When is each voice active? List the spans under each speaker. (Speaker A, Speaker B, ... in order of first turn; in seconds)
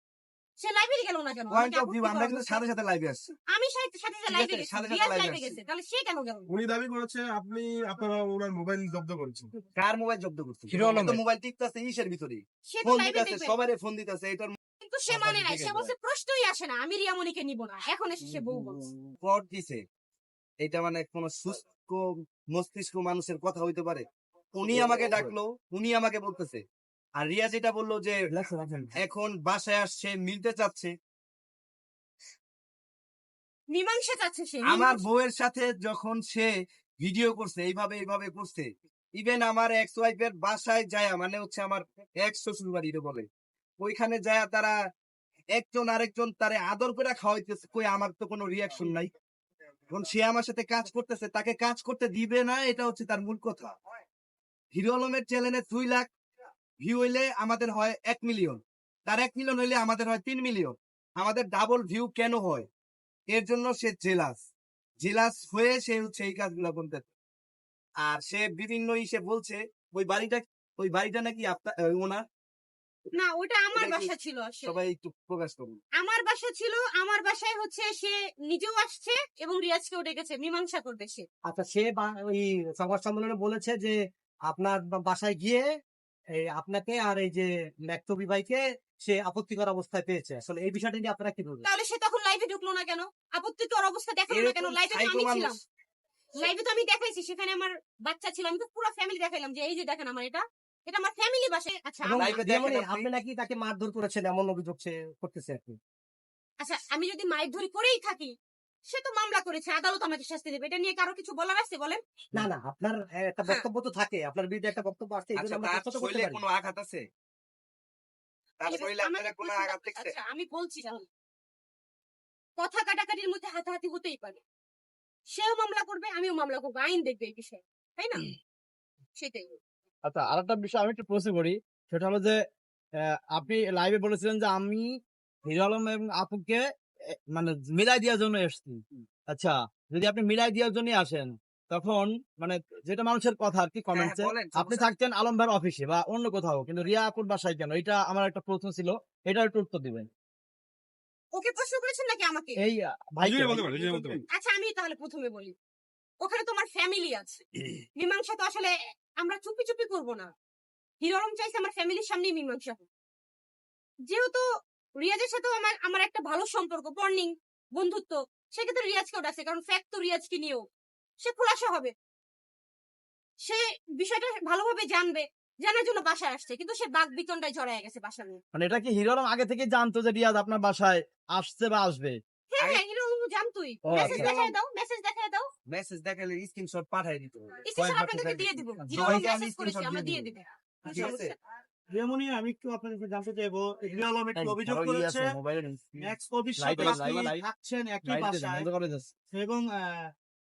Speaker A: 0.6-2.6, 3.5-6.5, 12.7-13.6, 14.8-18.9, 33.7-35.0, 73.1-74.8, 76.0-81.2, 91.6-95.6, 96.4-102.4, 106.6-108.3, 108.9-112.0, 118.7-121.1, 122.6-124.4, 125.3-128.3, 129.2-129.5, 151.3-152.6, 154.3-155.6, 156.2-157.4, 158.0-160.3, 161.0-162.9, 164.1-164.4, 165.0-170.7, 171.2-171.9, 173.4-178.4, 182.5-185.5, 187.7-191.3
Speaker B: 1.5-3.3, 4.3-5.6, 9.8-14.6, 15.2-15.8, 19.2-19.8, 20.6-26.6, 27.2-28.2, 29.0-30.9, 34.7-43.3, 43.8-44.8, 45.5-49.1, 49.9-53.7, 54.7-56.1, 56.8-62.7, 63.3-64.4, 65.0-67.1, 68.0-72.2, 73.7-74.1, 74.6-75.8, 94.3-95.5, 102.1-103.1, 115.3-117.0, 118.6-120.1, 143.9-144.9, 183.9-184.6, 185.7-190.3, 190.8-191.3
Speaker C: 6.5-9.5, 10.7-11.2, 153.2-154.2
Speaker D: 28.3-28.9, 130.1-132.4, 133.0-134.9, 135.4-136.6, 137.3-138.8, 139.3-150.1, 152.6-154.2, 178.5-182.2, 183.8-184.3, 188.9-189.3, 194.3-197.4, 198.0-199.1
Speaker E: 81.5-85.7, 86.4-91.7, 102.0-105.8, 112.3-116.4
Speaker F: 190.9-191.2, 191.9-195.2, 196.0-198.7, 199.3-200.1